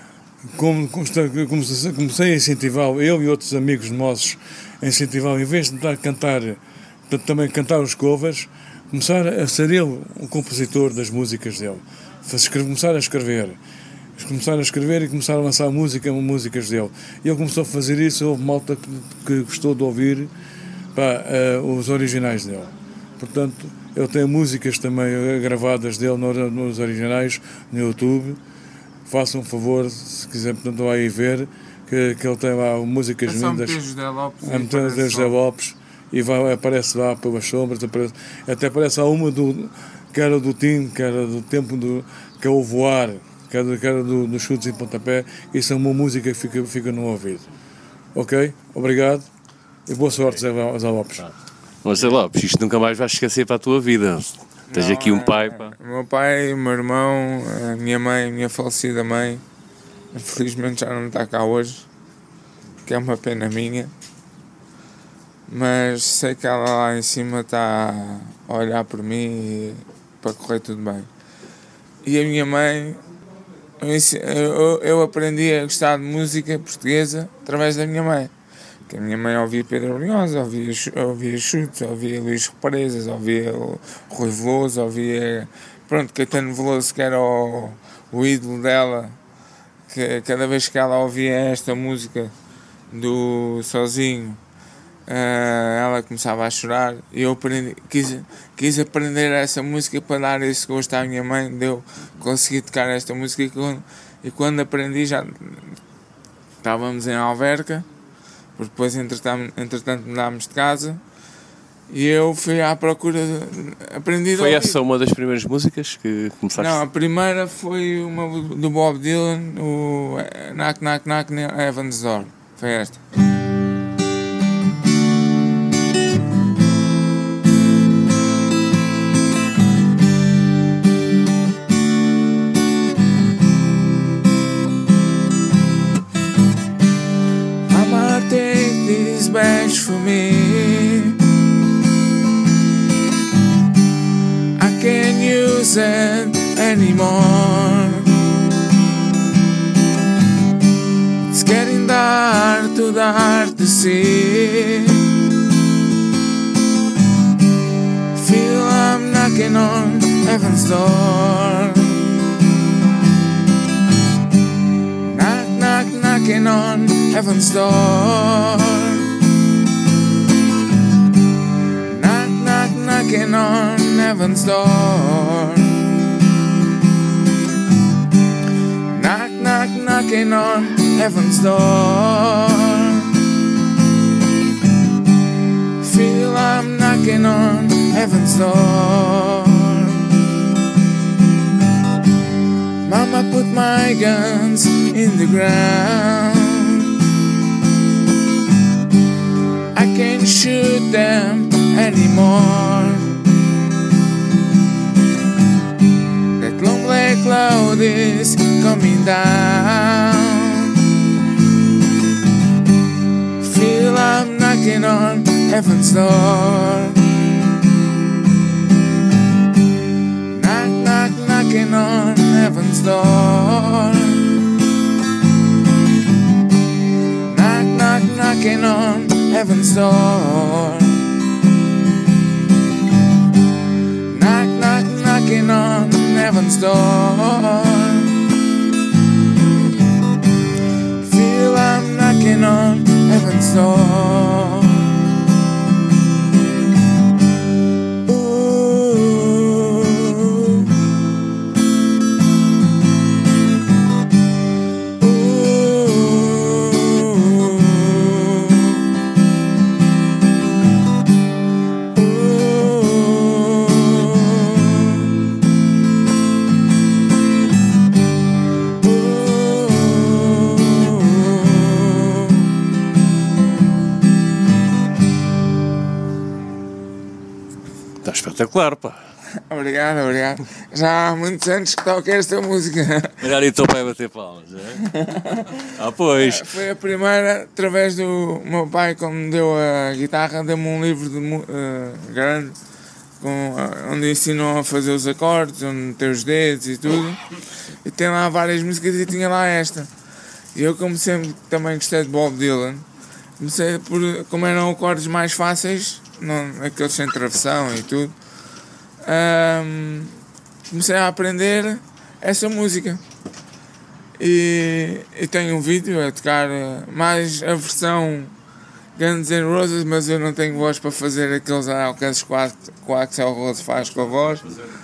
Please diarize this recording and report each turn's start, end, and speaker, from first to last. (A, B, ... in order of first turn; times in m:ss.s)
0:00.5-0:13.6 A
0:14.2-0:20.3 A
0:20.9-0:28.4 A
0:29.1-0:33.8 A
0:33.2-0:35.4 B
0:34.4-0:47.5 A
0:48.2-0:49.3 A
0:49.9-0:51.3 A
0:51.8-0:55.8 C
0:54.7-0:59.4 B
1:00.1-1:01.9 B
1:02.9-1:03.9 B
1:05.5-1:11.1 B
1:12.0-1:13.0 B
1:13.8-1:18.3 B
1:18.9-1:29.2 B
1:29.9-1:32.3 B
1:32.9-1:34.4 B
1:35.1-1:45.8 B
1:46.6-1:47.9 B
1:48.6-1:51.0 B
1:51.9-1:54.8 B
1:54.4-1:56.8 C
1:56.6-2:03.0 B
2:17.7-2:21.2 B
2:24.6-2:28.1 B
2:31.3-2:35.1 B
2:38.1-2:42.1 B
2:45.0-2:49.1 B
2:51.8-2:55.8 B
2:58.9-3:03.1 B
3:05.8-3:10.1 B
3:12.8-3:16.9 B
3:19.7-3:23.2 B
3:26.4-3:30.8 B
3:33.4-3:37.1 B
3:40.3-3:44.3 B
3:47.2-3:51.0 B
3:54.1-3:58.2 B
4:01.0-4:05.0 B
4:08.0-4:10.7 B
4:15.0-4:18.8 B
4:21.9-4:25.1 B
4:28.8-4:32.5 B
4:38.0-4:39.0 C
4:39.5-4:43.2 B
4:43.2-4:44.9 C
4:44.8-4:52.6 B
4:45.7-4:46.5 C
4:53.2-4:57.3 B
4:57.8-4:59.9 B
5:00.5-5:02.8 B
5:03.4-5:08.1 B
5:09.0-5:10.2 B
5:10.7-5:13.0 B
5:14.2-5:18.3 B
5:19.0-5:24.5 B